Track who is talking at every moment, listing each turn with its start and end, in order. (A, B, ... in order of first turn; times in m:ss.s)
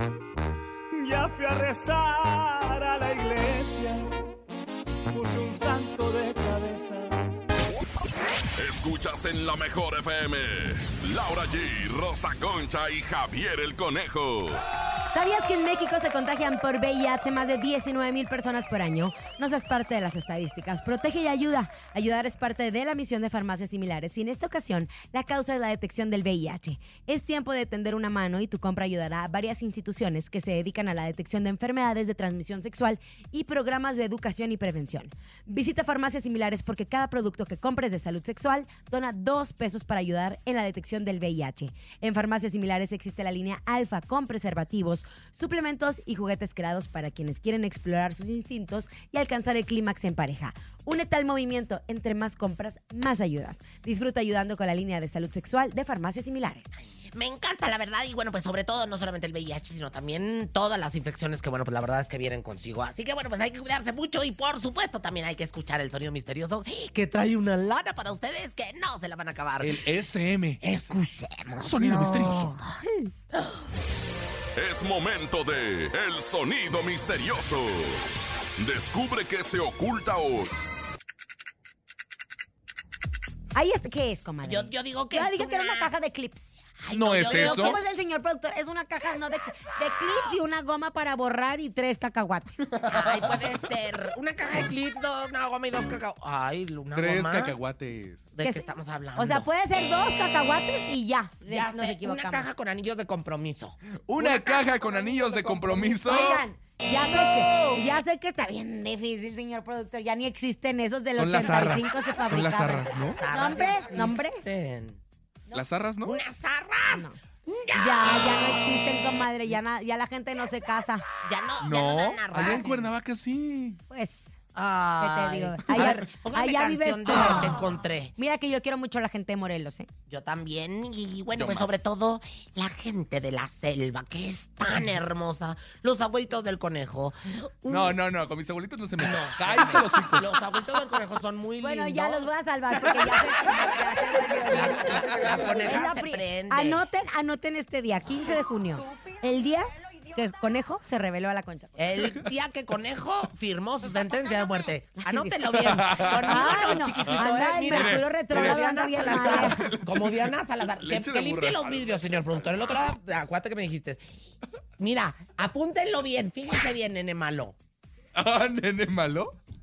0:00.9-0:04.0 A
0:05.1-0:07.1 A
0:08.6-0:14.6 B
0:15.1-0:56.7 C
0:57.1-1:09.8 D
1:09.6-1:10.6 E
1:10.6-1:13.6 D
1:11.6-1:12.5 E
1:14.6-1:18.0 B
1:18.6-1:20.5 B
1:23.5-1:26.5 C
1:24.4-1:25.9 D
1:26.8-1:27.8 D
1:26.9-1:27.8 E
1:27.2-1:32.7 C
1:32.8-1:37.5 D
1:36.9-1:38.3 E
1:38.3-1:39.5 D
1:38.4-1:42.5 C
1:41.4-1:46.3 D
1:44.1-1:46.4 E
1:46.0-1:54.4 C
1:47.0-1:47.8 E
1:51.1-1:53.2 E
1:52.8-1:55.0 D
1:55.5-1:56.2 E
1:56.0-1:58.9 D
1:56.9-1:57.2 C
1:57.7-2:01.0 C
2:01.2-2:02.9 D
2:01.6-2:03.8 E
2:03.9-2:04.3 C
2:04.5-2:08.1 D
2:05.0-2:07.5 C
2:08.2-2:09.9 C
2:10.1-2:18.0 D
2:11.4-2:11.8 E
2:17.7-2:20.3 E
2:19.0-2:23.1 D
2:21.6-2:31.8 C
2:24.4-2:26.8 D
2:31.8-2:44.1 D
2:35.0-2:35.3 C
2:35.5-2:42.8 E
2:36.2-2:39.6 C
2:44.8-2:47.6 D
2:48.1-2:49.3 E